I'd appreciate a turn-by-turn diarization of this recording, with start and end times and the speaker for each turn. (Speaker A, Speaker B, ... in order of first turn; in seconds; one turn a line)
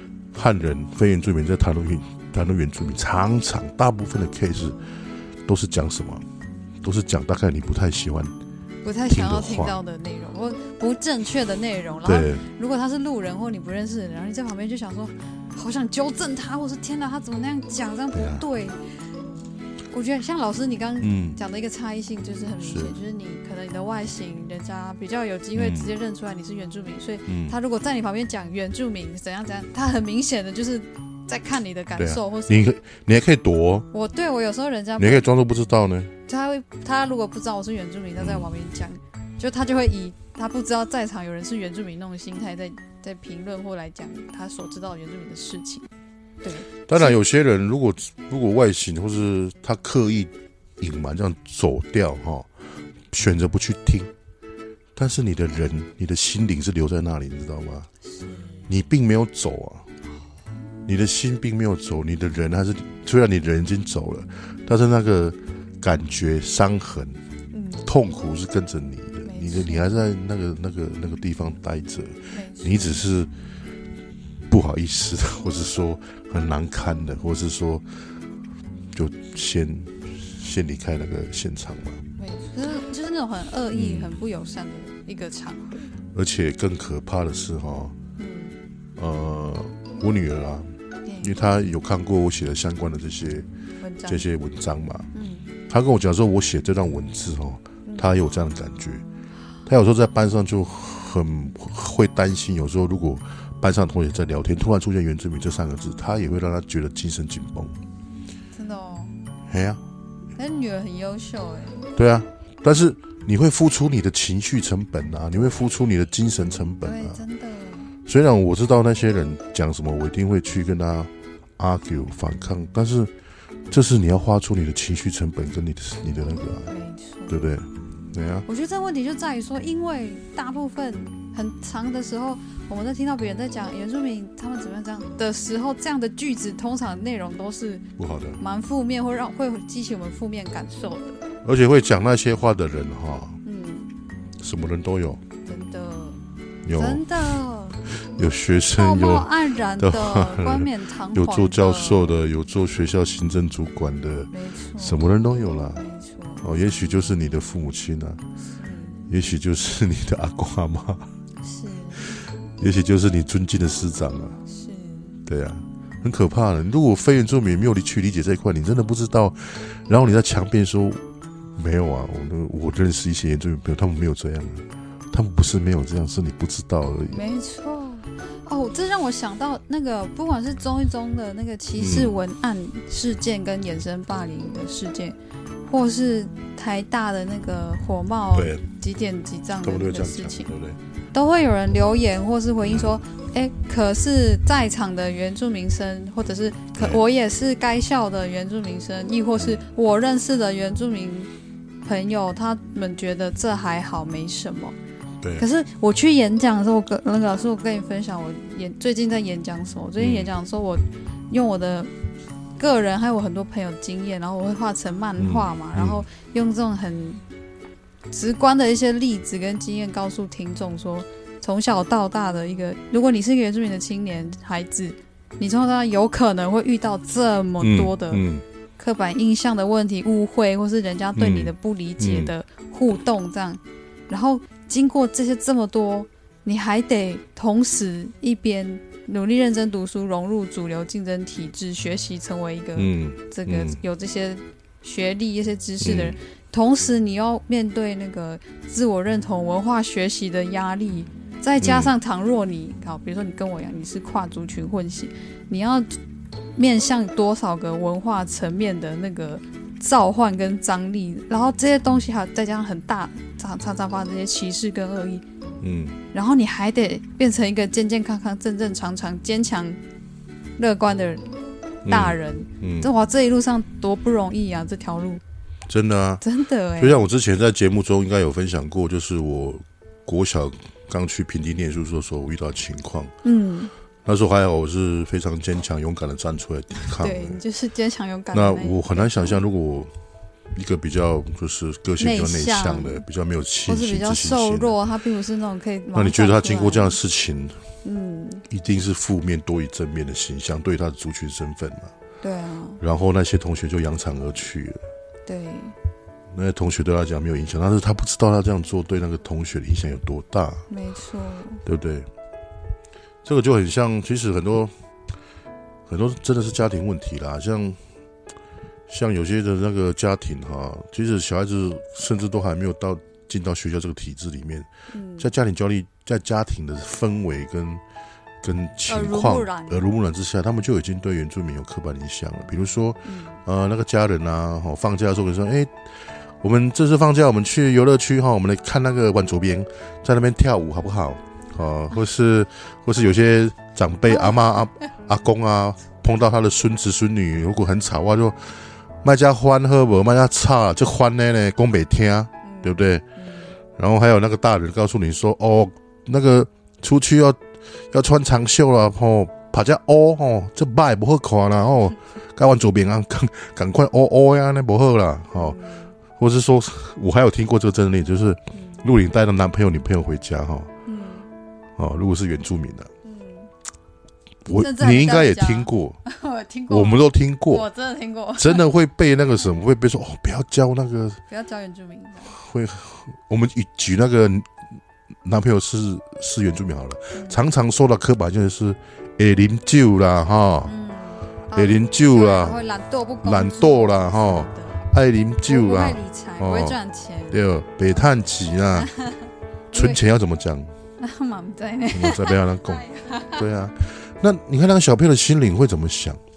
Speaker A: 0.3-4.8
Speaker A: 5.5-6.2
Speaker A: 6.8-8.3
Speaker B: 8.8-18.8
Speaker A: 9.1-9.8
Speaker A: 12.0-12.4
Speaker A: 18.1-18.4
Speaker B: 19.9-32.8
Speaker A: 21.0-21.4
Speaker A: 22.6-22.9
Speaker A: 25.5-25.9
Speaker A: 27.3-27.6
Speaker A: 31.9-33.9
Speaker B: 33.9-35.3
Speaker A: 35.0-36.1
Speaker B: 36.3-45.9
Speaker A: 38.2-38.5
Speaker B: 46.4-47.2
Speaker A: 46.9-52.5
Speaker A: 53.1-54.1
Speaker A: 55.0-57.9
Speaker B: 58.1-58.6
Speaker A: 58.7-59.8
Speaker A: 60.9-67.2
Speaker B: 67.5-67.9
Speaker A: 67.8-73.3
Speaker B: 69.2-70.0
Speaker B: 72.3-73.0
Speaker A: 74.5-77.8
Speaker A: 78.9-82.0
Speaker B: 82.2-85.9
Speaker A: 83.7-84.2
Speaker A: 86.1-87.9
Speaker B: 88.2-88.6
Speaker A: 89.0-93.5
Speaker B: 91.0-91.3
Speaker B: 93.8-94.2
Speaker A: 94.1-95.1
Speaker B: 95.1-95.5
Speaker A: 95.7-99.0
Speaker A: 99.7-107.7
Speaker B: 108.5-109.2
Speaker A: 109.5-109.8
Speaker B: 110.3-111.9
Speaker A: 111.9-117.2
Speaker B: 116.8-117.9
Speaker A: 118.0-123.1
Speaker A: 123.7-126.7
Speaker B: 126.7-127.4
Speaker A: 127.3-128.4
Speaker B: 128.4-137.8
Speaker A: 138.0-138.4
Speaker B: 138.4-141.2
Speaker A: 141.4-143.4
Speaker B: 143.4-143.9
Speaker A: 144.4-145.2
Speaker B: 145.4-146.2
Speaker A: 146.6-147.2
Speaker B: 146.7-147.8
Speaker A: 148.0-155.8
Speaker B: 148.8-152.1
Speaker B: 154.3-155.1
Speaker B: 155.7-156.4
Speaker A: 156.4-158.2
Speaker B: 158.4-159.1
Speaker A: 159.1-161.1
Speaker B: 161.4-162.2
Speaker A: 162.6-164.4
Speaker B: 164.4-165.2
Speaker A: 165.2-171.0
Speaker A: 171.6-177.2
Speaker B: 177.1-190.5
Speaker A: 181.8-182.2
Speaker A: 188.3-188.6
Speaker A: 189.6-190.8
Speaker B: 191.1-201.3
Speaker A: 192.6-192.9
Speaker A: 196.8-197.0
Speaker B: 201.8-204.8
Speaker B: 205.3-211.9
Speaker A: 210.0-210.3
Speaker B: 212.6-217.2
Speaker A: 215.2-216.0
Speaker B: 218.1-228.2
Speaker A: 227.6-228.4
Speaker B: 228.8-256.0
Speaker A: 231.2-232.3
Speaker A: 242.8-243.8
Speaker A: 245.8-246.2
Speaker A: 251.6-251.9
Speaker B: 256.6-265.2
Speaker A: 265.6-266.0
Speaker B: 266.1-269.8
Speaker B: 270.6-271.2
Speaker A: 271.8-272.9
Speaker B: 271.9-275.2
Speaker A: 275.7-276.2
Speaker B: 276.2-277.0
Speaker A: 276.8-283.1
Speaker B: 283.2-283.7
Speaker A: 284.0-287.4
Speaker B: 287.0-289.4
Speaker A: 288.3-289.9
Speaker A: 290.5-294.8
Speaker B: 292.0-293.0
Speaker B: 293.6-297.0
Speaker A: 295.9-297.6
Speaker B: 297.8-298.4
Speaker A: 298.5-301.9
Speaker B: 302.2-302.8
Speaker A: 302.8-304.8
Speaker B: 305.2-305.8
Speaker A: 306.3-310.6
Speaker B: 310.7-311.6
Speaker A: 311.6-312.1
Speaker A: 313.2-314.7
Speaker A: 315.9-317.8
Speaker A: 318.9-327.8
Speaker B: 324.9-325.3
Speaker A: 328.4-353.0
Speaker B: 328.9-329.8
Speaker B: 333.0-333.4
Speaker B: 352.4-353.6
Speaker A: 353.7-365.6
Speaker B: 365.3-365.9
Speaker A: 366.1-370.7
Speaker B: 368.5-368.8
Speaker B: 370.9-371.3
Speaker A: 371.8-372.9
Speaker B: 373.0-373.5
Speaker A: 374.4-376.0
Speaker B: 374.5-378.7
Speaker A: 376.7-377.6
Speaker A: 378.4-381.2
Speaker B: 381.3-382.4
Speaker A: 382.3-384.5
Speaker A: 385.2-390.7
Speaker B: 387.1-387.4
Speaker B: 390.6-394.8
Speaker A: 391.5-392.6
Speaker A: 393.2-396.8
Speaker B: 395.4-397.4
Speaker A: 397.3-398.9
Speaker B: 398.8-400.0
Speaker A: 399.7-400.7
Speaker B: 401.0-403.4
Speaker A: 401.9-406.2